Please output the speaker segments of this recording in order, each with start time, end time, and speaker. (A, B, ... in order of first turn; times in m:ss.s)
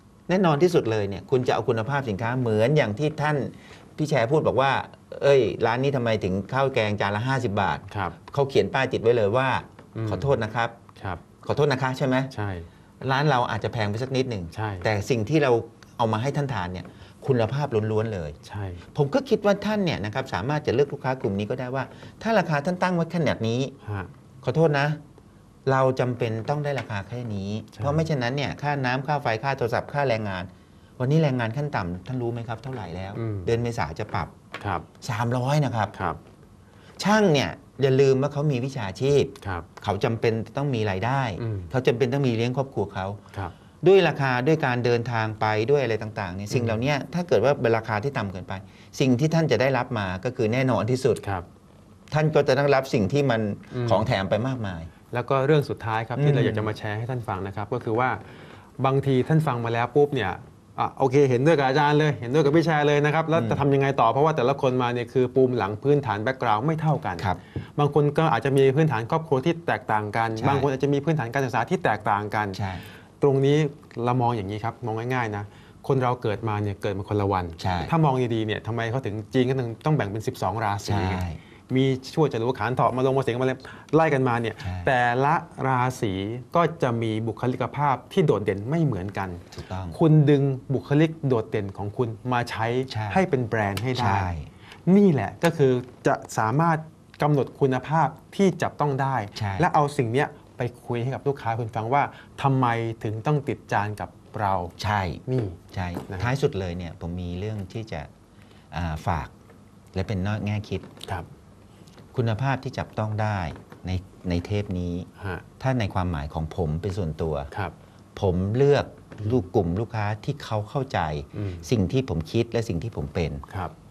0:00.3-0:10.8 A
0:07.9-0:08.2 B
0:10.0-0:10.4 B
0:11.0-0:11.2 B
0:11.4-0:12.3 A
0:12.3-0:12.7 B
0:13.0-0:18.4 A
0:14.5-0:14.9 B
0:18.4-0:18.8 B
0:18.9-0:23.7 A
0:23.8-0:24.1 B
0:24.4-0:25.0 A
0:25.7-0:34.3 A
0:27.7-0:28.1 B
0:33.2-0:33.5 B
0:34.6-0:34.9 B
0:35.0-0:35.9 A
0:35.9-0:36.2 B
0:37.0-0:43.2 A
0:39.4-0:39.7 B
0:41.4-0:41.7 B
0:43.8-0:51.2 A
0:46.5-0:46.8 B
0:52.1-0:54.9 A
0:53.7-0:54.1 B
0:55.1-0:58.2 B
0:56.2-0:56.7 A
0:58.8-1:12.6 B
1:03.3-1:03.6 A
1:10.4-1:10.7 A
1:12.5-1:12.8 A
1:13.2-1:34.3 B
1:17.6-1:17.9 A
1:20.9-1:21.4 A
1:24.6-1:24.9 A
1:29.5-1:30.0 A
1:32.9-1:33.2 A
1:34.0-1:34.5 A
1:34.9-1:44.8 B
1:39.4-1:39.7 A
1:44.8-1:48.1 A
1:45.3-1:46.3 B
1:48.7-1:49.3 A
1:49.9-1:50.9 A
1:52.1-1:55.1 A
1:55.2-1:55.4 B
1:55.6-1:57.5 A
1:58.2-2:03.4 A
2:01.3-2:01.7 B
2:03.5-2:03.7 B